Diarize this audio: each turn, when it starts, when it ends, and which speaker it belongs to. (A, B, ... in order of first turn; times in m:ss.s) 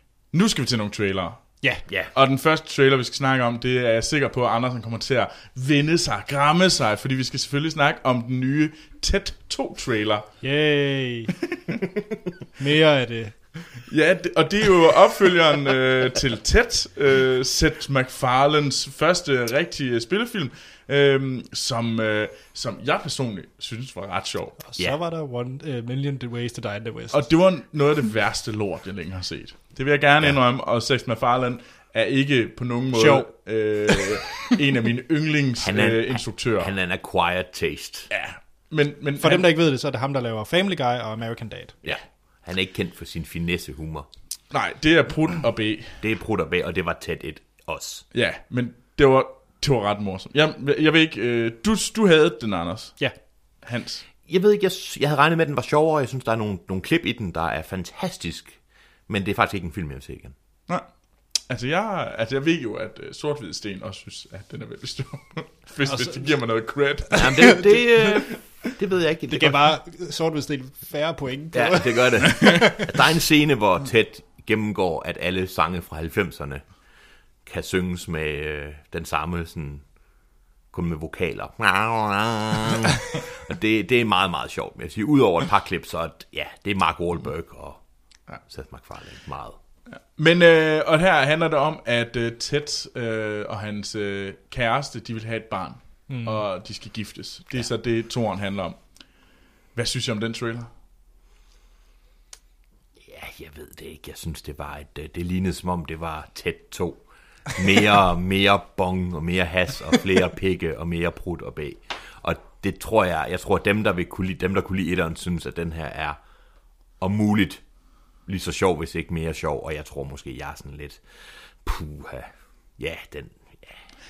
0:00.3-0:10.3 A
0:01.9-0:02.1 B
0:10.4-0:11.3 C
0:12.6-0:13.4 C
0:13.9-0:24.6 A
0:24.6-0:27.2 C
0:27.1-0:36.7 A
0:32.9-0:33.3 C
0:35.6-0:38.1 B
0:38.1-0:39.5 A
0:39.2-0:41.8 C
0:41.8-0:44.1 B
0:44.5-0:46.0 A
0:46.0-0:48.0 B
0:48.1-0:53.0 A
0:53.6-0:54.0 A
0:54.2-1:00.3 B
1:01.4-1:07.8 A
1:05.8-1:06.4 C
1:07.1-1:08.2 C
1:07.1-1:09.7 B
1:09.3-1:12.9 C
1:11.5-1:16.6 B
1:17.4-1:19.8 B
1:20.7-1:27.8 B
1:28.5-1:29.6 B
1:30.1-1:38.8 A
1:36.1-1:36.4 C
1:39.7-1:40.7 A
1:43.0-1:56.2 B
1:57.0-1:57.6 B
1:58.2-2:01.0 B
2:01.6-2:03.8 B